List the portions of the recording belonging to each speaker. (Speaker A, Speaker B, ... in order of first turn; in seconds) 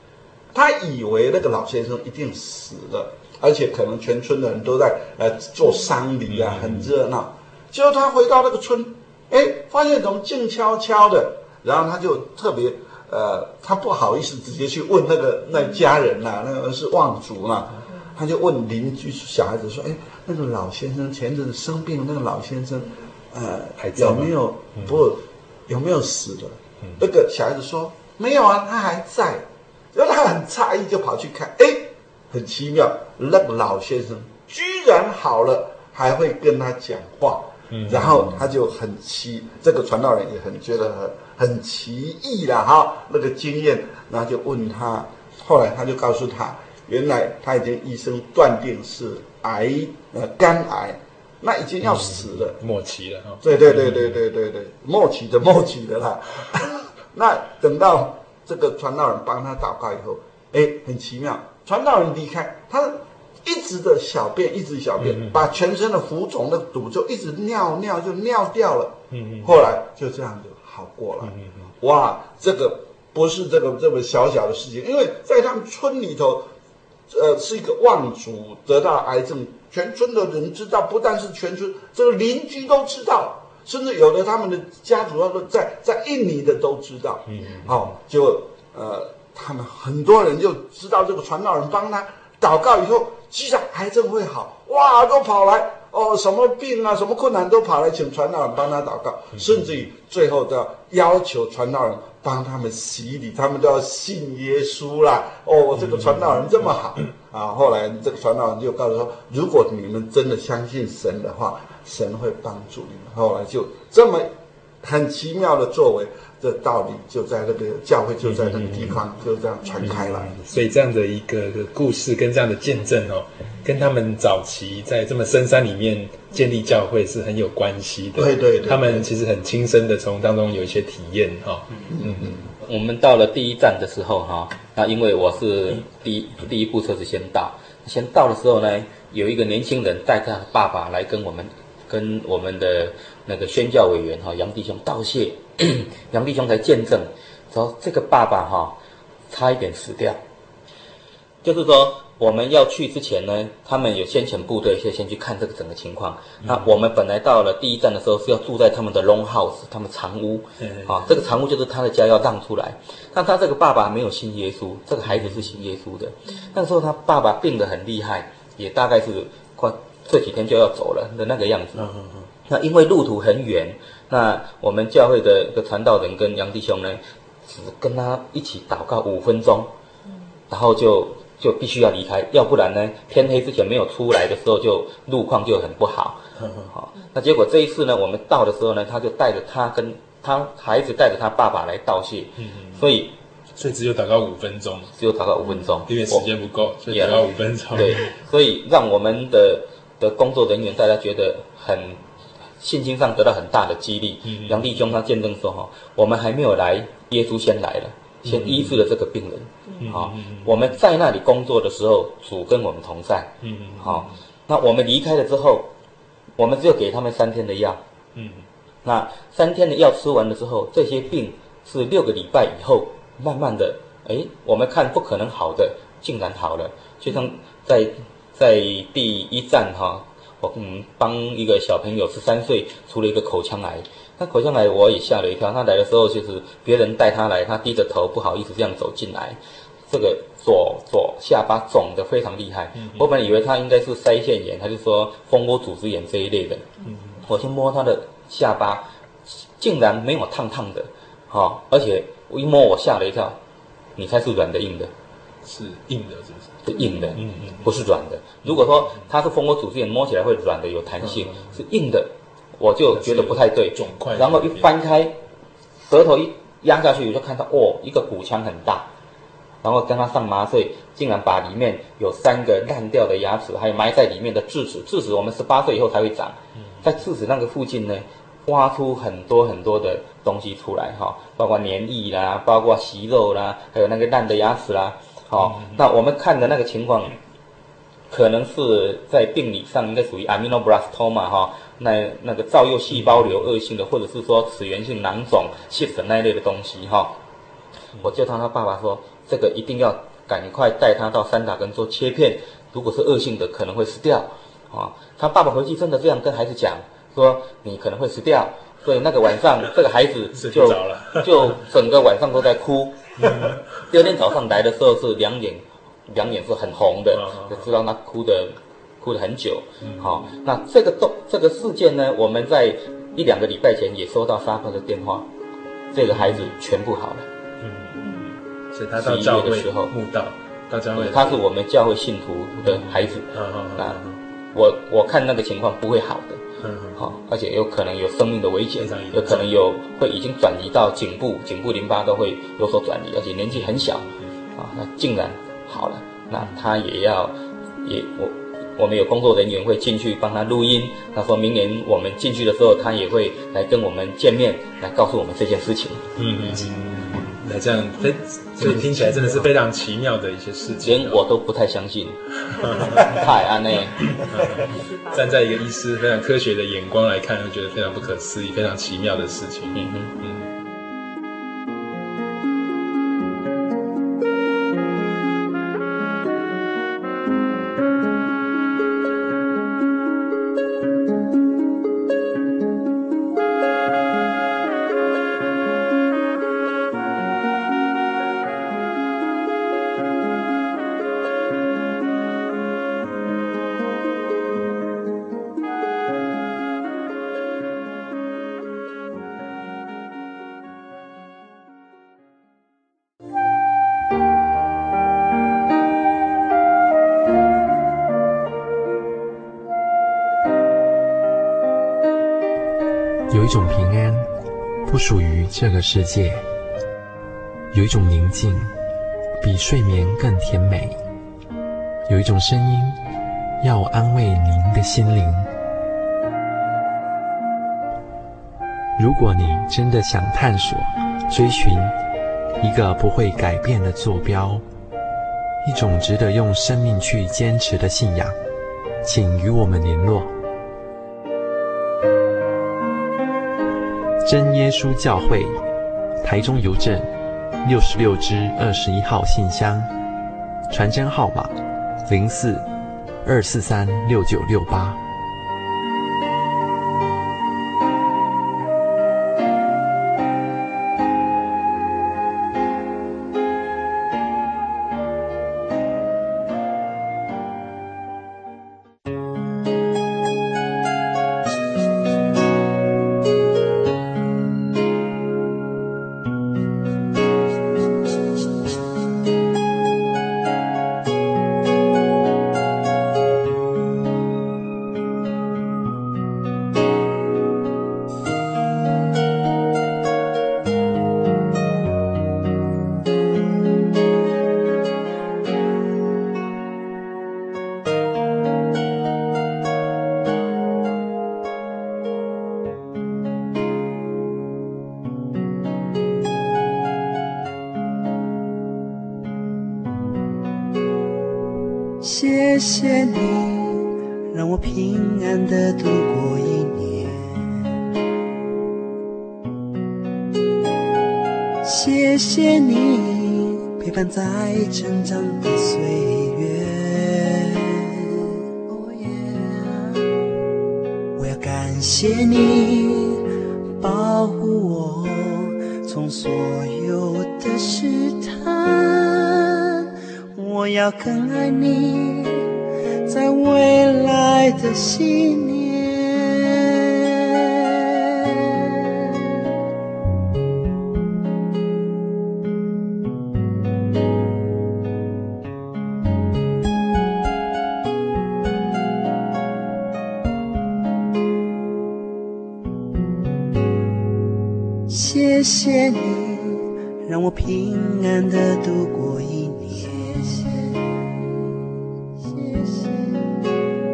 Speaker A: 0.5-52.6, 53.4-76.5, 77.1-114.3, 114.8-120.4, 128.2-129.1, 131.9-132.3
Speaker B: 6.3-6.9, 23.8-25.0, 37.7-38.4, 51.8-54.2, 65.0-65.3, 69.1-69.5, 71.2-71.7, 87.3-87.8, 105.8-106.3, 118.3-119.0, 119.8-132.4, 156.4-156.7, 160.6-161.2, 165.1-165.4, 171.8-172.3, 186.4-186.7, 192.4-192.8, 193.6-194.9, 195.9-198.1, 204.3-204.9, 208.2-208.8, 209.8-210.7, 213.4-214.1, 218.2-218.4, 246.9-247.2, 255.4-256.6, 257.2-257.8, 258.4-259.0, 261.0-261.6, 262.9-264.7, 276.6-276.8, 285.4-285.8, 292.9-293.4, 310.4-311.6, 313.2-313.6, 317.1-317.7, 319.9-320.2, 326.1-326.5, 327.6-331.4, 332.6-334.2, 336.6-337.0, 338.8-339.6, 356.2-361.2, 362.6-363.2, 364.1-370.5
Speaker C: 132.6-148.8, 149.3-150.2, 151.4-171.9, 172.5-179.7, 180.5-193.1, 195.0-196.3, 196.9-202.0, 202.6-215.7, 216.4-217.8, 218.8-246.7, 247.2-253.4, 254.0-254.9, 256.6-265.2, 265.9-268.9, 269.6-287.2, 288.1-297.1, 298.0-325.3, 325.9-327.3, 329.0-329.9, 330.9-334.0, 334.5-336.4, 337.0-356.1, 360.8-364.3, 369.7-370.1
Speaker D: 413.3-414.3, 414.9-416.5, 417.7-418.8, 419.4-421.0, 422.1-423.0, 423.6-425.5, 429.0-432.0, 432.6-434.7, 435.6-438.4, 439.0-440.4, 444.2-445.6, 446.2-447.1, 447.6-449.9, 450.7-452.7, 453.2-455.0
Speaker E: 512.0-517.5, 521.6-530.1, 531.2-533.2, 533.8-542.4, 543.1-547.7, 564.9-570.8, 572.2-573.2